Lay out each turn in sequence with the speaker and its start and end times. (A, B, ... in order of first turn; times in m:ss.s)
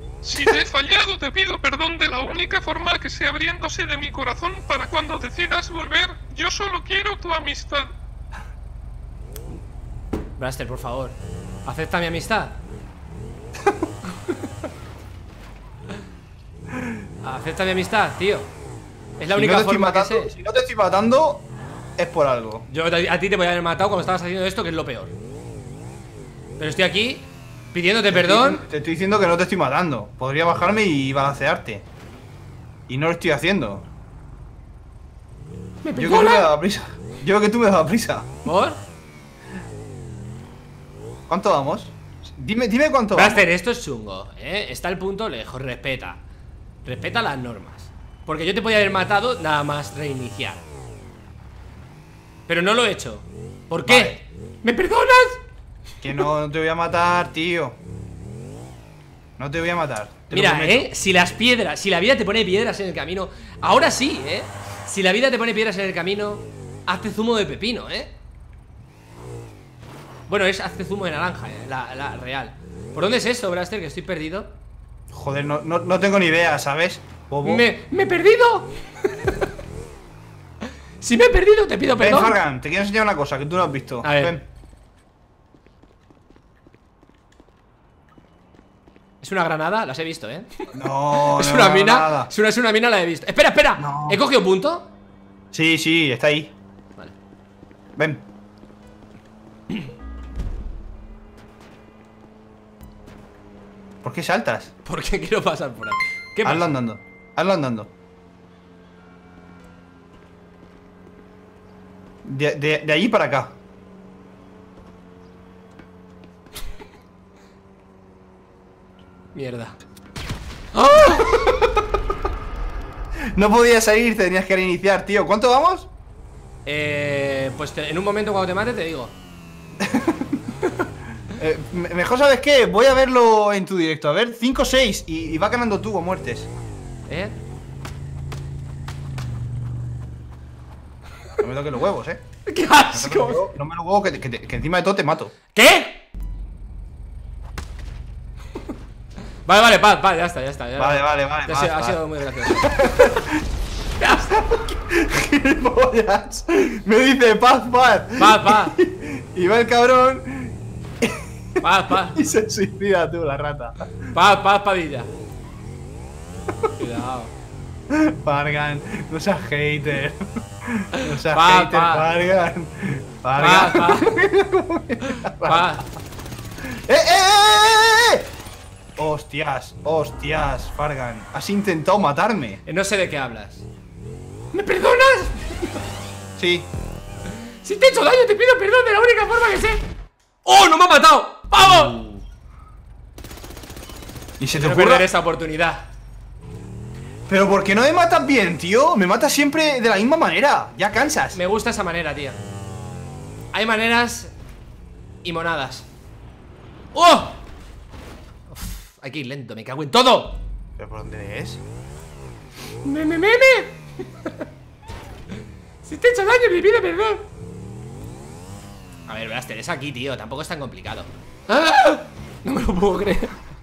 0:00.2-0:07.9 A
0:10.4-0:12.6 B
0:17.2-0:18.5 B
0:19.2-0:20.3 B
0:19.3-0:22.7 C
0:22.7-0:25.1 B
0:26.6-0:28.6 B
0:28.1-0:31.8 C
0:32.9-0:33.9 C
0:35.8-0:36.5 B
0:36.0-0:38.3 C
0:38.4-0:38.8 B
0:41.3-0:43.4 C
0:43.1-0:46.2 B
0:46.8-0:50.6 B
0:52.5-0:55.4 B
0:53.9-0:54.2 C
0:56.0-0:57.8 C
0:59.4-1:00.9 C
1:00.3-1:08.1 B
1:10.3-1:14.5 B
1:15.1-1:17.7 C
1:17.4-1:19.4 B
1:21.0-1:22.4 B
1:22.0-1:24.4 C
1:24.0-1:24.4 B
1:29.2-1:30.6 B
1:30.7-1:32.3 C
1:31.1-1:34.9 B
1:33.8-1:34.2 C
1:35.5-1:36.5 C
1:38.0-1:38.2 C
1:44.0-1:44.7 C
1:44.8-1:46.7 B
1:46.4-1:47.9 C
1:52.2-1:53.6 C
1:59.3-1:59.8 B
2:00.7-2:01.5 B
2:03.3-2:05.9 C
2:06.6-2:09.2 B
2:09.8-2:10.3 C
2:11.3-2:16.5 C
2:17.1-2:17.4 B
2:21.4-2:22.2 C
2:22.5-2:23.5 B
2:22.9-2:25.3 C
2:25.5-2:26.0 B
2:29.5-2:32.7 B
2:30.8-2:33.4 C
2:34.0-2:34.3 B
2:34.3-2:41.3 C
2:38.2-2:38.8 B
2:41.6-2:42.2 B
2:42.0-2:44.1 C
2:44.1-2:45.1 B
2:46.8-2:47.3 B
2:47.9-2:55.8 C
2:51.2-2:52.1 B
2:53.4-2:54.2 B
2:55.1-2:55.8 B
2:56.7-2:58.3 C
2:59.0-3:02.6 C
3:02.7-3:03.7 B
3:04.5-3:05.8 B
3:06.4-3:06.7 C
3:07.6-3:09.8 B
3:10.4-3:12.0 B
3:11.6-3:12.2 C
3:14.4-3:15.1 C
3:14.5-3:15.9 B
3:17.3-3:21.4 C
3:21.3-3:22.4 B
3:23.5-3:24.3 B
3:25.2-3:25.9 B
3:26.9-3:27.4 B
3:28.5-3:30.4 B
3:30.8-3:31.6 C
3:32.8-3:34.4 B
3:35.8-3:37.2 B
3:39.1-3:43.3 B